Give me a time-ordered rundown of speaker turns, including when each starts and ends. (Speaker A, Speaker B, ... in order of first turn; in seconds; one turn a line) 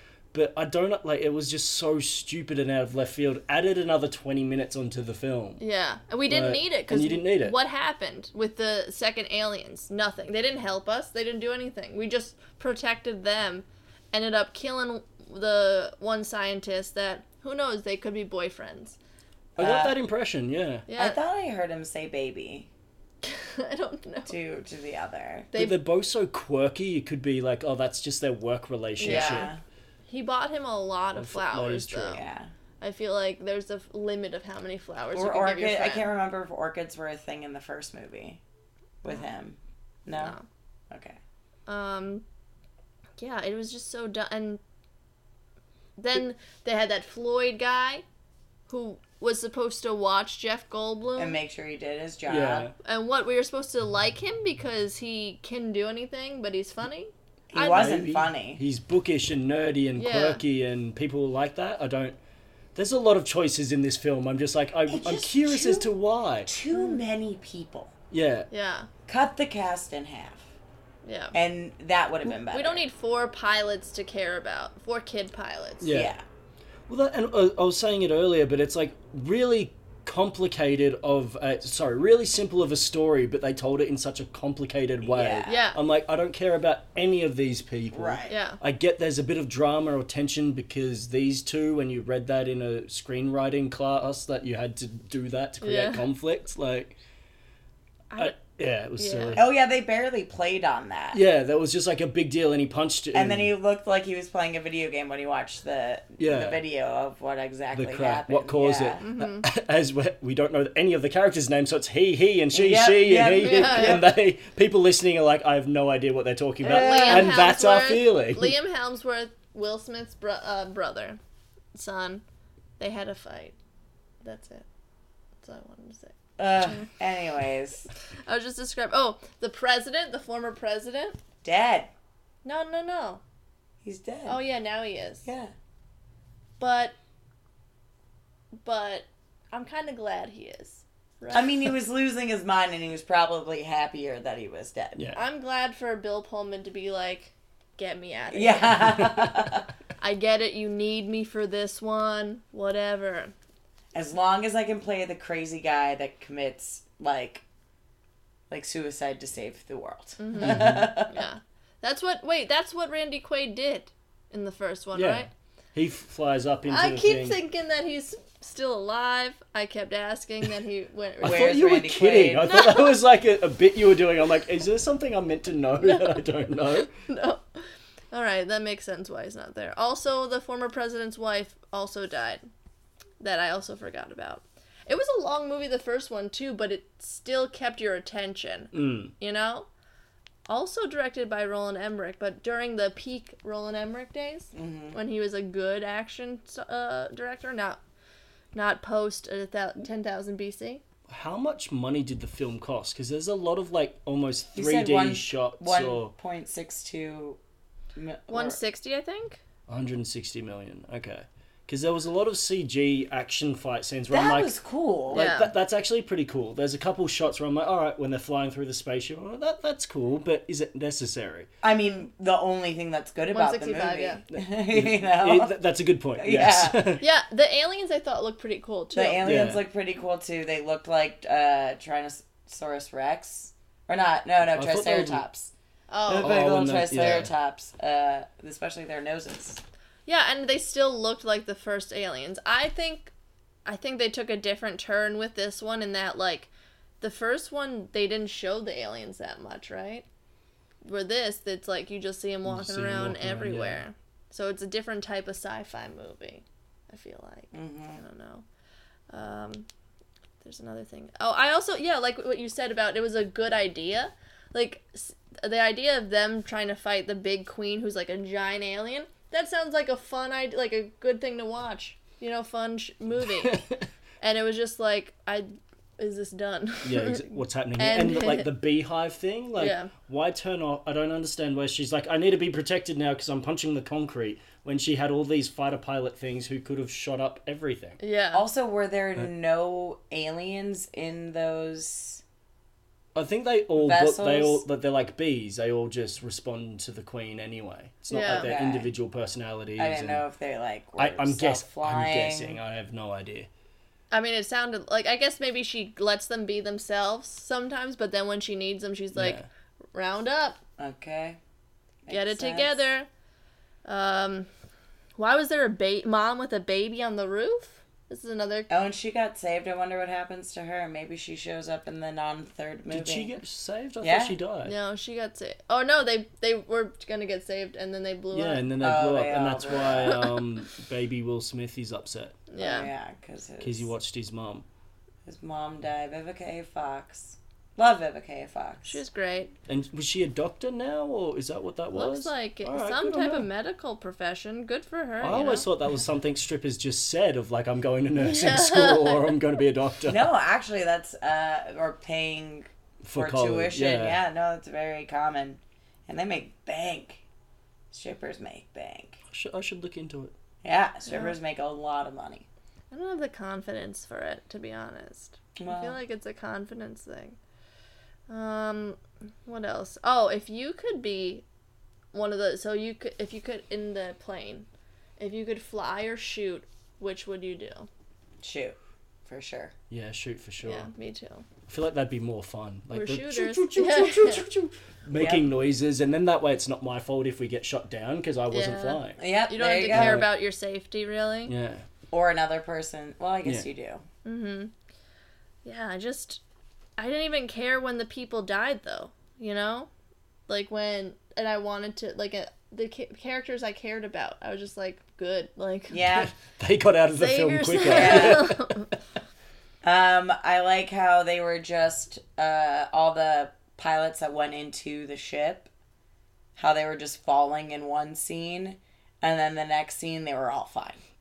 Speaker A: 0.3-5.6
Speaker B: 5.6-19.0
Speaker A: 6.3-7.6
Speaker C: 19.6-20.0
Speaker A: 19.6-20.9
Speaker B: 20.9-21.2
Speaker C: 20.9-22.7
Speaker B: 23.2-24.3
Speaker C: 24.3-25.5
Speaker B: 25.5-25.8
Speaker A: 25.5-29.5
Speaker B: 29.0-29.5
Speaker C: 29.0-29.6
Speaker B: 30.1-32.2
Speaker A: 31.2-32.2
Speaker C: 32.1-32.5
Speaker B: 32.8-36.1
Speaker C: 35.1-38.4
Speaker C: 39.0-40.4
Speaker B: 40.1-40.5
Speaker C: 40.9-41.2
Speaker B: 41.7-42.2
Speaker B: 43.2-44.6
Speaker B: 46.0-48.0
Speaker B: 48.7-51.4
Speaker C: 51.2-52.7
Speaker A: 52.3-52.7
Speaker B: 52.8-58.0
Speaker C: 57.5-58.6
Speaker A: 57.7-62.2
Speaker B: 60.0-60.4
Speaker A: 62.8-66.5
Speaker C: 64.9-65.9
Speaker C: 66.5-67.9
Speaker A: 68.1-68.5
Speaker B: 68.5-68.9
Speaker C: 69.1-70.5
Speaker B: 71.0-71.3
Speaker C: 71.3-72.9
Speaker B: 72.3-75.9
Speaker A: 75.8-76.2
Speaker C: 75.9-76.2
Speaker A: 76.9-97.0
Speaker C: 85.0-85.6
Speaker B: 85.5-85.8
Speaker C: 87.9-88.3
Speaker B: 88.3-88.6
Speaker B: 95.6-96.0
Speaker B: 98.1-98.4
Speaker A: 98.2-99.5
Speaker B: 99.0-99.4
Speaker C: 99.3-101.2
Speaker A: 101.1-103.5
Speaker C: 103.1-109.0
Speaker A: 106.2-106.6
Speaker A: 107.7-118.6
Speaker B: 109.0-109.5
Speaker C: 112.5-114.1
Speaker B: 113.4-114.0
Speaker C: 116.6-117.4
Speaker B: 116.7-121.2
Speaker B: 121.7-122.2
Speaker B: 122.8-123.5
Speaker B: 124.2-124.7
Speaker B: 125.4-126.9
Speaker C: 126.4-127.9
Speaker B: 128.3-131.2
Speaker C: 131.4-131.9
Speaker B: 132.4-133.2
Speaker C: 133.8-134.4
Speaker B: 134.3-135.3
Speaker C: 135.2-135.5
Speaker B: 136.6-137.0
Speaker B: 138.6-141.6
Speaker C: 141.3-145.0
Speaker B: 145.2-149.0
Speaker C: 148.3-149.7
Speaker B: 150.0-153.3
Speaker C: 153.9-157.4
Speaker C: 158.5-161.2
Speaker B: 160.2-165.3
Speaker A: 160.4-160.9
Speaker A: 164.9-167.4
Speaker B: 166.7-171.6
Speaker A: 171.2-176.9
Speaker C: 171.2-172.6
Speaker B: 172.5-173.0
Speaker B: 175.8-176.2
Speaker B: 176.9-177.6
Speaker B: 178.1-182.5
Speaker B: 183.2-189.7
Speaker A: 188.7-189.1
Speaker B: 190.5-197.8
Speaker C: 194.5-195.0
Speaker B: 198.5-200.8
Speaker A: 201.1-206.1
Speaker C: 204.6-207.4
Speaker C: 207.9-208.6
Speaker B: 208.3-209.4
Speaker A: 209.7-214.5
Speaker C: 214.1-215.2
Speaker A: 215.1-221.5
Speaker B: 215.1-215.5
Speaker C: 221.6-225.5
Speaker B: 223.3-224.2
Speaker A: 224.3-227.0
Speaker C: 226.2-226.9
Speaker B: 227.0-229.3
Speaker C: 228.9-235.5
Speaker A: 229.2-229.6
Speaker A: 234.5-235.2
Speaker B: 235.9-236.4
Speaker C: 236.1-239.6
Speaker A: 236.2-237.3
Speaker B: 240.1-243.1
Speaker B: 243.7-246.5
Speaker B: 247.0-250.1
Speaker B: 250.8-258.4
Speaker A: 252.5-253.8
Speaker C: 257.5-258.0
Speaker B: 259.1-259.7
Speaker B: 260.4-273.6
Speaker A: 273.4-273.9
Speaker B: 274.2-278.5
Speaker A: 276.8-288.0
Speaker B: 279.6-279.9
Speaker B: 288.0-288.4
Speaker C: 288.3-292.2
Speaker A: 293.1-300.2
Speaker C: 293.8-294.6
Speaker B: 298.1-298.5
Speaker C: 298.2-298.9
Speaker C: 299.8-302.6
Speaker A: 301.0-303.5
Speaker B: 304.1-309.4
Speaker A: 309.1-309.5
Speaker B: 309.9-310.6
Speaker C: 310.8-311.4
Speaker C: 312.1-312.8
Speaker B: 312.1-313.1
Speaker B: 313.9-314.5
Speaker B: 315.2-318.7
Speaker C: 318.7-323.3
Speaker A: 322.9-324.8
Speaker C: 324.0-324.4
Speaker B: 324.6-328.6
Speaker A: 328.3-332.4
Speaker C: 328.8-330.2
Speaker B: 332.5-332.9
Speaker C: 332.6-333.9
Speaker A: 333.6-334.6
Speaker C: 335.2-339.0
Speaker B: 338.9-339.5
Speaker A: 339.7-343.5
Speaker B: 341.9-345.7
Speaker A: 345.2-350.3
Speaker B: 348.2-349.4
Speaker C: 350.1-357.2
Speaker A: 353.0-354.2
Speaker C: 357.9-359.2
Speaker A: 359.3-360.3
Speaker C: 360.6-362.5
Speaker B: 362.9-367.4
Speaker C: 365.6-366.0
Speaker B: 368.3-371.4
Speaker B: 372.1-374.7
Speaker B: 375.2-377.9
Speaker C: 378.4-379.7
Speaker A: 379.9-380.9
Speaker B: 380.6-381.4
Speaker A: 381.7-389.2
Speaker B: 382.9-384.5
Speaker C: 385.1-385.5
Speaker B: 388.5-391.5
Speaker C: 389.2-390.2
Speaker A: 389.9-390.3
Speaker A: 391.5-391.9
Speaker C: 392.1-394.0
Speaker B: 394.2-394.7
Speaker B: 395.6-396.4
Speaker B: 397.0-399.9
Speaker B: 400.5-406.1
Speaker C: 405.9-406.3
Speaker A: 406.4-408.8
Speaker B: 407.1-408.9
Speaker C: 407.9-408.5
Speaker C: 409.8-415.7
Speaker C: 416.6-421.0